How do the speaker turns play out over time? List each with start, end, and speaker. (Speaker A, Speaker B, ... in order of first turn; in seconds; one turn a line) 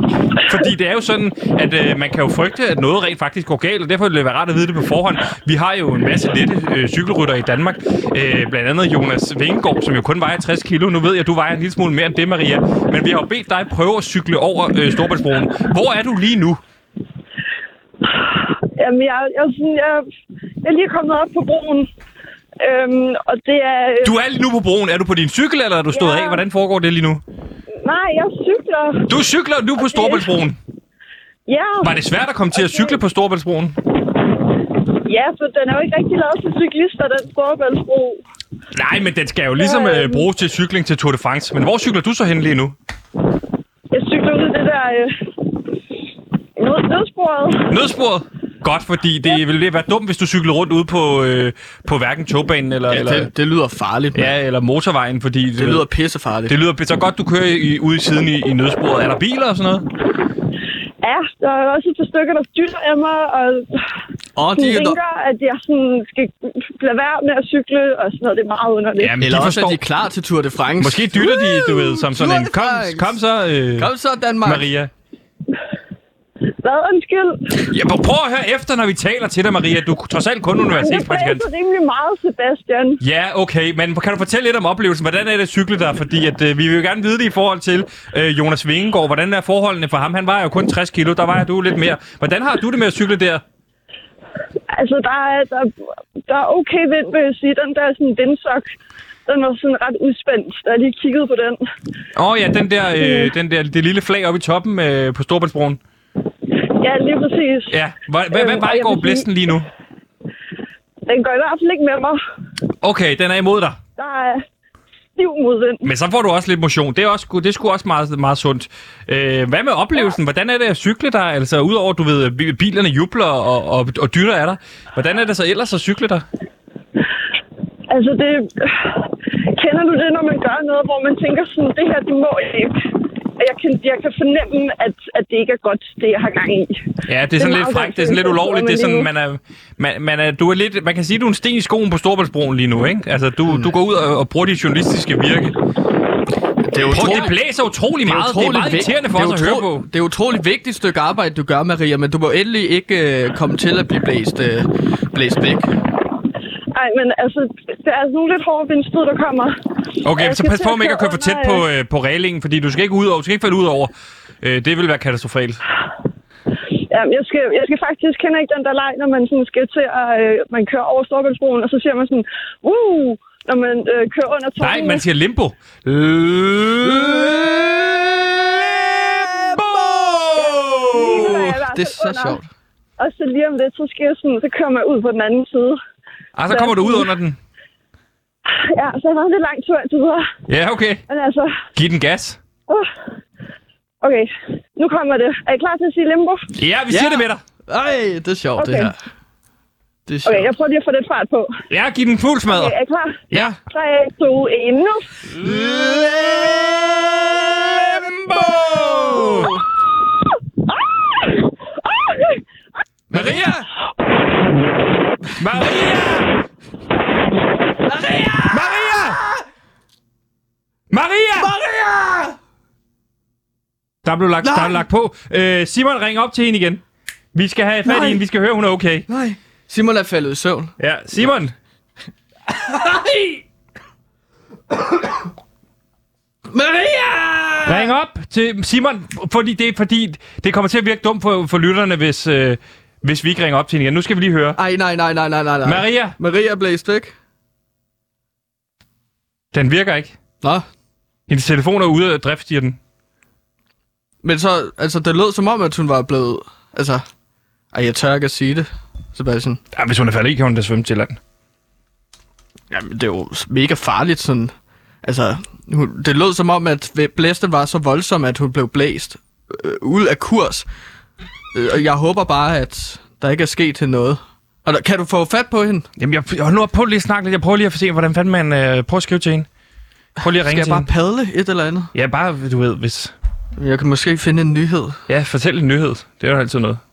Speaker A: 0.4-16.6
Speaker B: 18.1-20.1
Speaker B: 20.6-21.9
Speaker B: 22.6-24.1
Speaker A: 24.0-27.2
Speaker B: 25.9-26.4
Speaker B: 27.8-29.1
Speaker A: 29.1-30.6
Speaker B: 29.8-30.4
Speaker B: 31.4-32.0
Speaker A: 31.8-33.8
Speaker B: 32.5-33.0
Speaker B: 35.0-38.2
Speaker A: 38.7-42.7
Speaker B: 39.6-40.3
Speaker B: 43.9-45.3
Speaker B: 46.6-47.7
Speaker A: 47.7-53.3
Speaker C: 52.9-54.3
Speaker A: 54.1-55.8
Speaker C: 55.6-56.5
Speaker A: 56.5-59.9
Speaker B: 61.0-63.8
Speaker C: 64.3-65.0
Speaker B: 64.5-69.1
Speaker A: 69.0-69.8
Speaker C: 69.2-73.2
Speaker A: 70.8-73.9
Speaker C: 73.8-74.7
Speaker A: 74.4-74.9
Speaker B: 76.6-77.6
Speaker A: 77.7-81.4
Speaker B: 80.7-83.0
Speaker A: 83.0-93.4
Speaker B: 94.7-95.7
Speaker B: 96.3-98.7
Speaker B: 99.3-101.6
Speaker A: 102.2-105.8
Speaker B: 103.0-103.3
Speaker B: 106.8-107.8
Speaker A: 107.7-109.7
Speaker B: 108.3-109.2
Speaker B: 111.0-112.2
Speaker A: 112.8-113.8
Speaker B: 114.0-114.4
Speaker B: 115.2-115.9
Speaker A: 115.8-126.2
Speaker B: 127.9-132.8
Speaker B: 133.4-136.8
Speaker A: 137.1-145.5
Speaker B: 137.4-139.1
Speaker C: 143.5-143.7
Speaker C: 146.6-147.3
Speaker A: 146.9-149.8
Speaker C: 148.0-155.7
Speaker B: 156.7-161.6
Speaker A: 160.0-165.6
Speaker B: 166.9-175.0
Speaker A: 174.6-181.5
Speaker C: 176.8-177.7
Speaker C: 179.5-179.9
Speaker B: 180.3-182.4
Speaker C: 181.0-182.5
Speaker B: 183.0-185.8
Speaker A: 186.3-187.4
Speaker B: 186.5-187.1
Speaker B: 188.5-190.3
Speaker A: 190.5-191.0
Speaker B: 191.1-191.6
Speaker A: 191.7-192.4
Speaker B: 194.0-196.5
Speaker A: 196.5-197.4
Speaker C: 196.9-199.0
Speaker B: 198.6-198.9
Speaker C: 200.1-200.5
Speaker B: 200.2-201.5
Speaker A: 201.7-202.7
Speaker B: 202.5-205.2
Speaker A: 203.3-203.6
Speaker A: 205.3-209.5
Speaker C: 205.4-207.1
Speaker C: 208.9-209.6
Speaker B: 211.2-212.4
Speaker C: 213.1-213.7
Speaker A: 213.1-213.5
Speaker A: 215.4-216.3
Speaker C: 217.8-219.4
Speaker A: 218.5-219.2
Speaker A: 220.9-221.5
Speaker C: 221.3-222.3
Speaker A: 224.0-226.8
Speaker C: 224.4-224.8
Speaker A: 227.3-229.1
Speaker C: 227.8-228.2
Speaker C: 229.1-230.7
Speaker A: 230.8-231.5
Speaker A: 232.7-233.1
Speaker C: 232.7-233.3
Speaker C: 236.5-237.9
Speaker A: 237.7-244.6
Speaker C: 244.6-247.1
Speaker A: 245.6-246.2
Speaker A: 249.5-250.1
Speaker A: 251.3-252.8
Speaker C: 254.2-257.0
Speaker C: 257.7-259.6
Speaker A: 259.7-261.2
Speaker C: 262.7-270.6
Speaker C: 271.5-275.9
Speaker A: 276.0-279.5
Speaker A: 280.2-280.9
Speaker C: 280.4-281.9
Speaker A: 281.9-283.1
Speaker C: 283.6-285.0
Speaker A: 285.1-286.8